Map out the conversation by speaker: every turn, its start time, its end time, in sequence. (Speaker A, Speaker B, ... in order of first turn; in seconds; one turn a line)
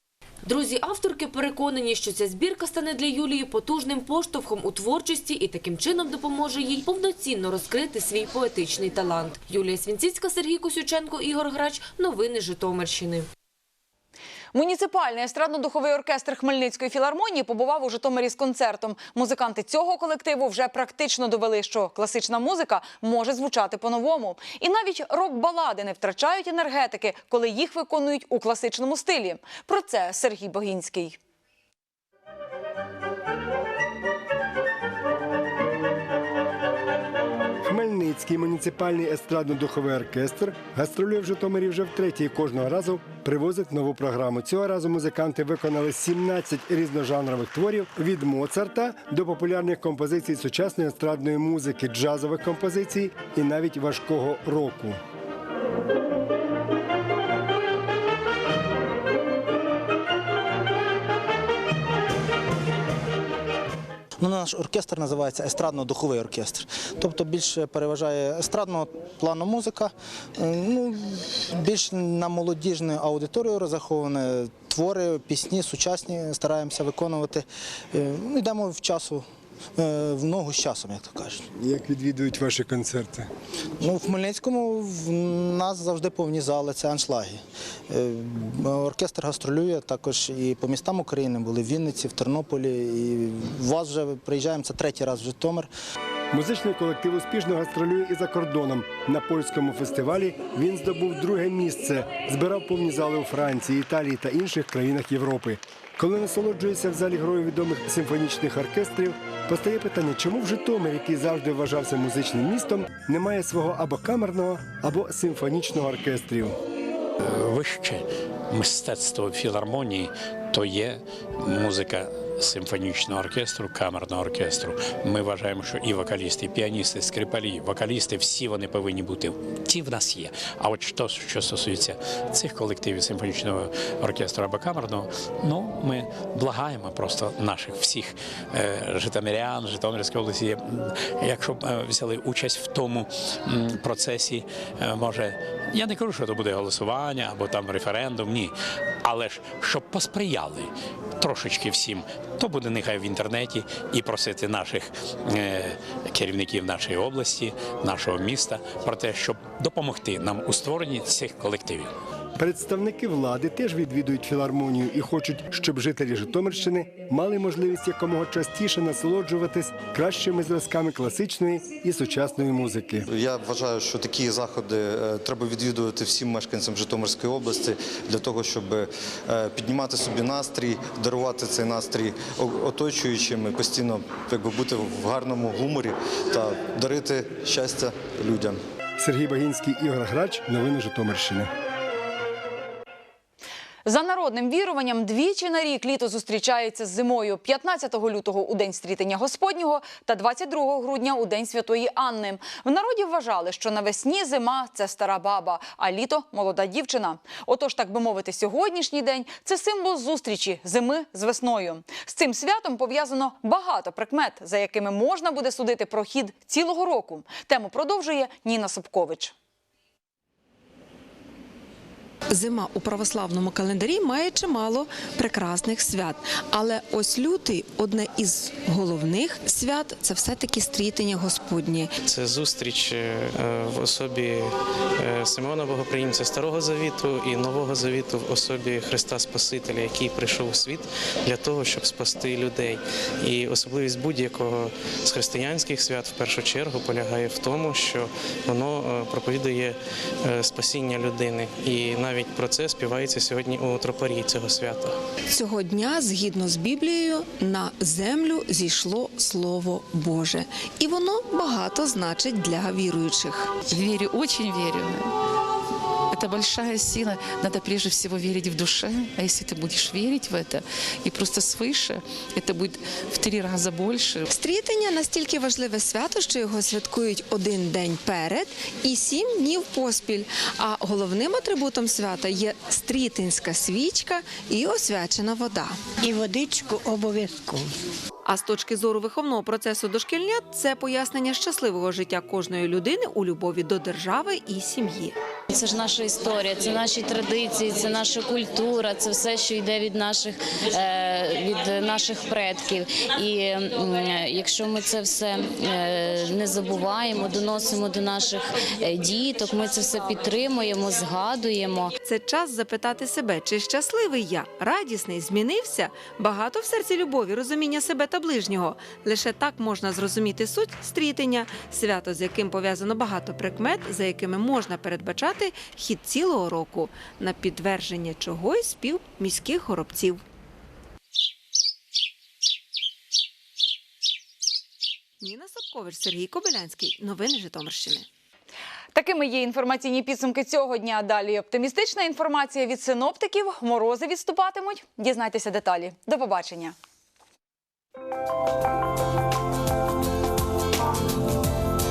Speaker A: 0.4-13.3
Speaker B: 14.5-31.2
Speaker C: 37.6-55.0
Speaker D: 64.2-79.2
Speaker D: 79.8-81.4
Speaker C: 81.5-83.3
Speaker D: 83.8-95.7
Speaker C: 96.3-116.6
Speaker E: 117.2-161.9
Speaker C: 162.4-173.1
Speaker F: 173.1-188.6
Speaker C: 189.0-191.5
Speaker B: 193.8-219.3
Speaker G: 222.3-231.9
Speaker H: 232.1-255.0
Speaker G: 255.3-263.5
Speaker I: 263.6-265.1
Speaker I: 266.1-274.3
Speaker G: 274.3-285.8
Speaker G: 288.2-295.2
Speaker J: 295.5-311.9
Speaker G: 312.0-330.2
Speaker G: 335.2-338.1
Speaker B: 338.9-346.7